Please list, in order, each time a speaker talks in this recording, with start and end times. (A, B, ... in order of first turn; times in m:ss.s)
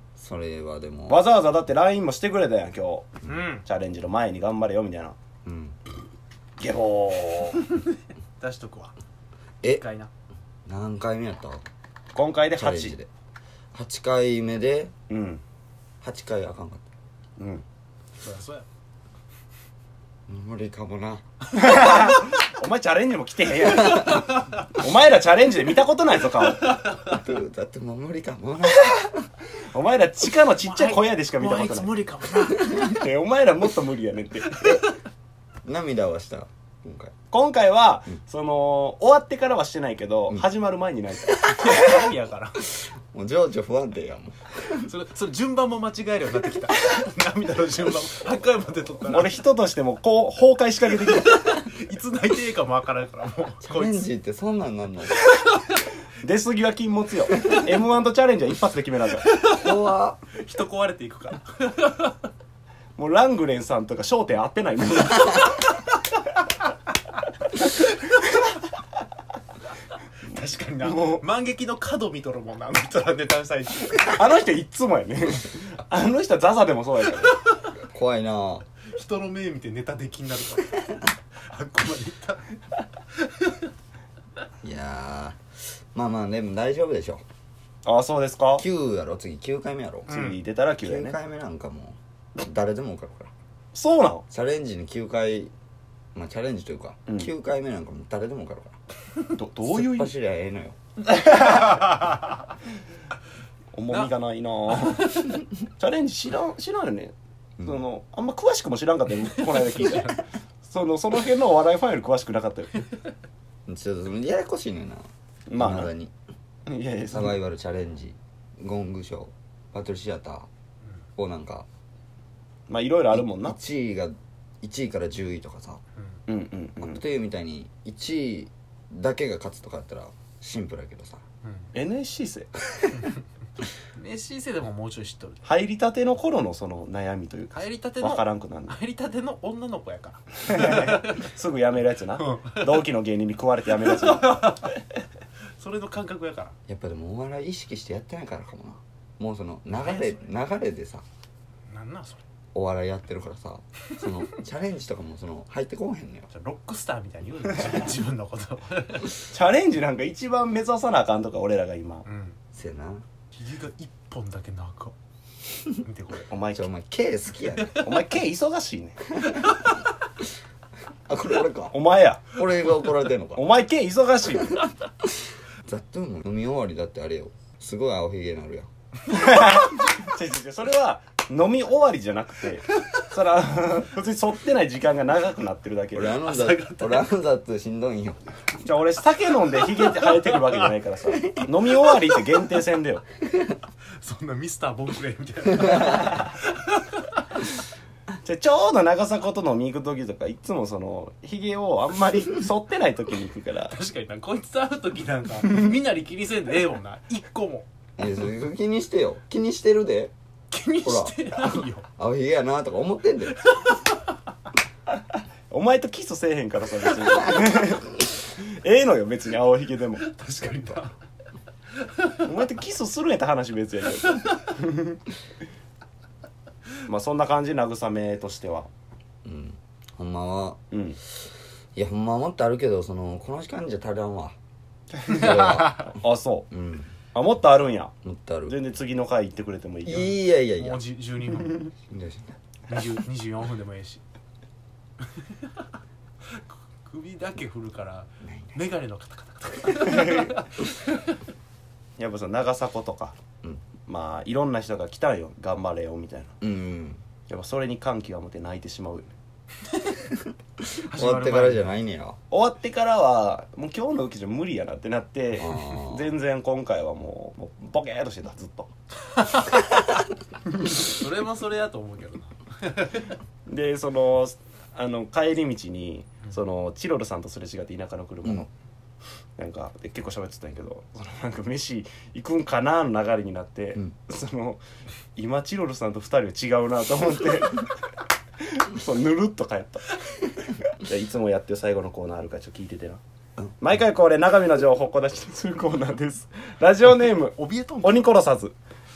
0:00.2-0:01.2 A
0:01.1-0:05.2 B
0:03.2-0:03.6 C
0:05.4-0:05.8 A
0:06.6-0:07.6 B
0:08.4-0:08.9 C
0:09.6-0:10.1 C
0:10.6-0:11.6 A
0:12.1-0:13.0 B
0:12.6-0:13.1 A
0:13.7-0:14.9 A
0:15.1-0:15.4 B
0:16.0-0:16.8 A
0:17.4-0:17.6 B
0:18.2-0:18.6 C
0:20.3-0:21.2 A
0:21.5-0:26.8 B
0:23.8-0:24.2 A
0:23.8-0:24.7 C
0:26.6-0:27.2 C
0:27.1-0:29.2 A
0:29.7-0:31.9 B
0:30.6-0:33.0 C
0:32.6-0:34.7 B
0:34.5-0:34.9 A
0:35.6-0:37.1 A
0:37.3-0:42.0 B
0:41.4-0:42.6 C
0:41.5-0:41.8 A
0:42.7-0:44.9 A
0:44.8-0:49.3 C
0:49.1-0:51.4 B
0:51.1-0:54.0 C
0:53.6-0:55.2 A
0:56.2-0:59.3 B
0:59.2-0:59.8 C
0:59.6-1:00.2 A
1:00.3-1:02.3 C
1:03.0-1:05.5 B
1:10.2-1:14.3 C
1:10.8-1:11.2 B
1:14.0-1:17.4 B
1:17.8-1:18.6 A
1:18.9-1:22.6 C
1:23.2-1:23.7 C
1:24.6-1:25.4 A
1:25.9-1:27.2 A
1:27.8-1:28.6 B
1:28.6-1:30.3 A
1:30.1-1:31.2 B
1:30.1-1:30.3 C
1:30.8-1:33.3 A
1:33.7-1:34.2 B
1:34.3-1:35.5 A
1:36.1-1:38.8 A
1:39.3-1:40.1 B
1:39.6-1:40.8 A
1:41.7-1:42.0 C
1:43.7-1:52.8 B
1:44.6-1:45.4 C
1:49.3-1:50.2 C
1:53.7-1:56.1 A
1:55.5-1:55.9 B
1:56.7-1:57.4 B
1:57.1-2:00.5 A
2:01.2-2:01.6 A
2:02.7-2:03.6 B
2:03.1-2:05.8 A
2:06.3-2:07.0 B
2:06.8-2:11.2 A
2:11.7-2:12.5 B
2:13.9-2:15.4 C
2:15.4-2:18.8 B
2:17.5-2:21.3 C
2:20.5-2:24.6 B
2:22.2-2:22.8 C
2:23.7-2:24.8 C
2:25.6-2:26.5 C
2:26.7-2:31.0 A
2:29.7-2:30.2 C
2:31.7-2:32.2 C
2:32.5-2:36.3 A
2:36.3-2:39.2 C
2:39.2-2:42.0 B
2:42.0-2:42.4 C
2:42.5-2:43.0 A
2:43.4-2:44.9 C
2:45.6-2:46.3 C
2:46.3-2:46.7 B
2:46.5-2:47.8 A
2:47.6-2:47.9 C
2:47.8-2:49.1 B
2:51.1-2:51.7 A
2:51.7-2:52.3 B
2:52.3-2:53.4 A
2:53.3-2:54.6 B
2:55.6-2:58.7 A
2:59.1-3:06.2 B
3:05.9-3:08.2 A
3:06.2-3:07.1 C
3:08.6-3:13.0 B
3:09.8-3:10.7 C
3:14.0-3:17.2 C
3:18.2-3:23.8 B
3:23.7-3:27.6 C
3:28.0-3:30.1 A
3:30.5-3:31.8 C
3:30.8-3:33.4 A
3:33.5-3:34.0 C
3:35.5-3:40.0 B
3:40.0-3:40.9 C
3:41.8-3:42.2 C
3:42.2-3:45.0 B
3:44.1-3:44.4 C
3:46.8-3:48.7 B
3:49.2-3:50.6 A
3:50.7-3:51.0 B
3:51.7-3:54.4 A
3:55.0-3:56.5 B
3:55.0-3:55.9 A
3:56.5-3:56.9 A
3:57.1-3:57.9 B
3:58.0-3:58.6 A
3:58.5-4:00.2 B
3:59.8-4:00.9 A
4:00.5-4:01.7 C
4:01.9-4:02.4 A
4:02.7-4:04.0 C
4:05.0-4:05.7 C
4:06.3-4:11.2 C
4:08.2-4:08.7 A
4:12.0-4:13.2 B
4:13.9-4:16.3 B
4:16.4-4:17.0 A
4:17.3-4:19.1 B
4:20.7-4:21.7 C
4:20.9-4:22.2 A
4:22.3-4:28.7 B
4:25.4-4:26.0 A
4:29.3-4:29.6 C
4:30.6-4:33.2 C
4:33.5-4:38.5 B
4:39.4-4:44.6 B
4:45.2-4:47.7 B
4:48.4-4:49.9 B
4:50.6-4:53.0 B
4:53.6-4:58.5 B
4:56.9-4:58.1 C